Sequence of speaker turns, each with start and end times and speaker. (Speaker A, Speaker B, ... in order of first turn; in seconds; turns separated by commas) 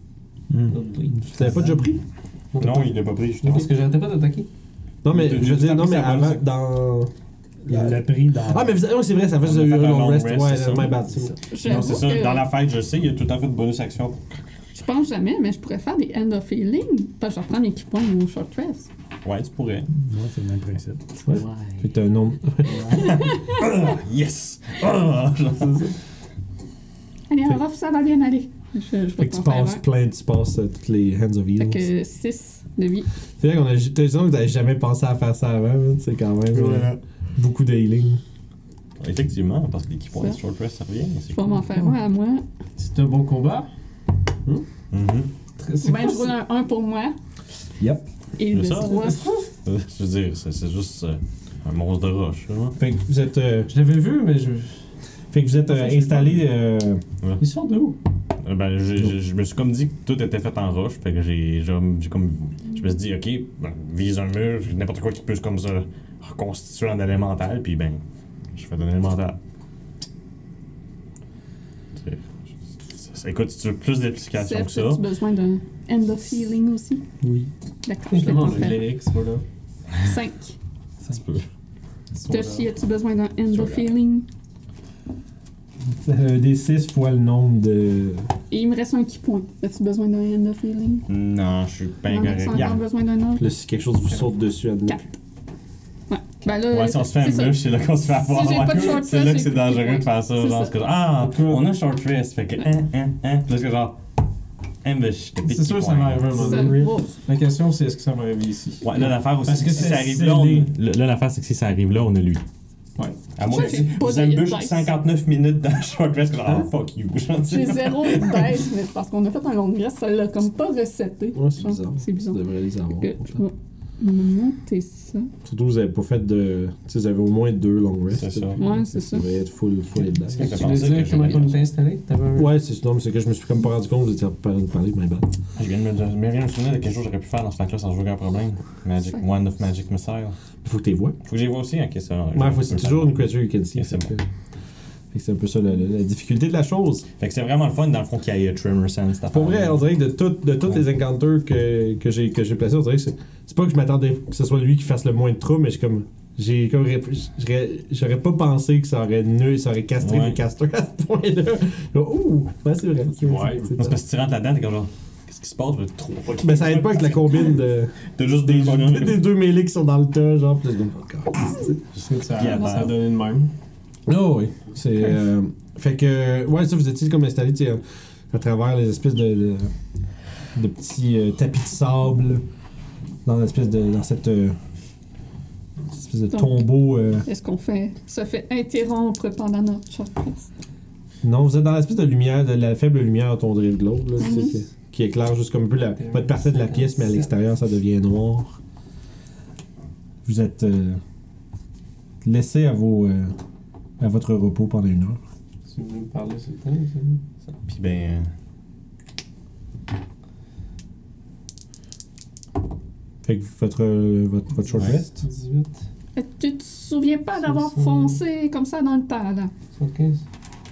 Speaker A: 0.5-1.9, Speaker B: 0.7-1.2, Speaker C: 1.3-2.0, Speaker B: 2.5-4.5, Speaker D: 2.6-3.7, Speaker C: 5.0-7.1, Speaker D: 5.1-6.4, Speaker A: 7.7-8.7, Speaker C: 7.7-11.4, Speaker D: 9.4-10.9, Speaker E: 11.5-12.5, Speaker D: 11.6-14.2, Speaker E: 14.7-18.9, Speaker D: 19.2-19.9, Speaker A: 20.0-21.3, Speaker C: 21.3-23.0, Speaker D: 21.4-21.7, Speaker D: 22.8-25.9, Speaker E: 22.9-23.6, Speaker E: 27.3-29.8, Speaker C: 29.2-31.9, Speaker E: 31.6-33.1, Speaker C: 33.4-38.2, Speaker B: 36.5-37.0, Speaker D: 39.0-41.6, Speaker E: 40.1-40.4, Speaker E: 41.3-42.4, Speaker B: 42.8-43.7, Speaker D: 44.9-45.3, Speaker B: 45.6-46.3, Speaker E: 45.8-47.1, Speaker C: 47.8-48.0, Speaker E: 48.4-49.4, Speaker D: 48.5-49.1, Speaker B: 49.0-49.4, Speaker D: 49.6-52.8, Speaker C: 52.8-53.7, Speaker B: 53.7-54.8, Speaker C: 55.3-57.0, Speaker B: 55.7-56.5, Speaker B: 57.4-58.0, Speaker D: 58.4-68.0, Speaker D: 68.5-69.4, Speaker D: 72.8-75.0, Speaker E: 74.3-77.0, Speaker A: 77.2-77.5, Speaker E: 77.8-78.9, Speaker B: 78.1-79.4, Speaker E: 80.0-80.5, Speaker D: 81.0-81.4, Speaker B: 82.1-82.7, Speaker E: 82.3-84.3, Speaker C: 86.0-88.3, Speaker E: 88.5-91.1, Speaker D: 91.1-92.8, Speaker E: 92.1-93.5, Speaker C: 93.4-95.0, Speaker E: 94.9-95.1, Speaker E: 96.1-97.7, Speaker D: 96.7-104.0, Speaker E: 98.2-100.7, Speaker B: 101.2-101.7, Speaker D: 104.8-106.8, Speaker B: 105.4-110.7, Speaker E: 106.3-107.2, Speaker D: 108.8-112.4, Speaker D: 113.3-118.6, Speaker E: 113.5-114.9, Speaker E: 117.4-122.4, Speaker C: 121.3-123.4, Speaker E: 123.0-125.3, Speaker C: 125.4-130.5, Speaker D: 128.1-128.6, Speaker E: 128.6-129.2, Speaker B: 130.3-132.5, Speaker D: 130.3-131.7, Speaker C: 132.3-135.3, Speaker D: 135.6-140.3, Speaker C: 140.6-141.2, Speaker D: 141.2-144.1, Speaker C: 142.3-144.2, Speaker C: 145.1-147.1, Speaker D: 147.2-149.8, Speaker C: 149.3-164.0, Speaker D: 160.0-160.4, Speaker D: 163.2-167.6, Speaker B: 163.2-163.6, Speaker C: 166.4-171.8, Speaker D: 168.1-169.2, Speaker D: 171.9-173.0, Speaker B: 172.0-173.5, Speaker E: 172.5-172.8, Speaker C: 174.1-179.7, Speaker C: 180.5-182.4, Speaker C: 183.2-184.6, Speaker C: 185.9-187.2, Speaker E: 186.3-186.7, Speaker E: 187.2-190.5, Speaker C: 191.2-198.6, Speaker E: 194.2-194.6, Speaker B: 195.9-197.3, Speaker C: 200.2-201.0, Speaker C: 202.2-203.3, Speaker C: 204.0-205.2, Speaker B: 205.7-207.2, Speaker D: 207.6-208.3, Speaker C: 213.2-215.1, Speaker B: 214.6-215.8, Speaker E: 216.2-219.5, Speaker B: 217.4-218.2, Speaker B: 219.7-220.2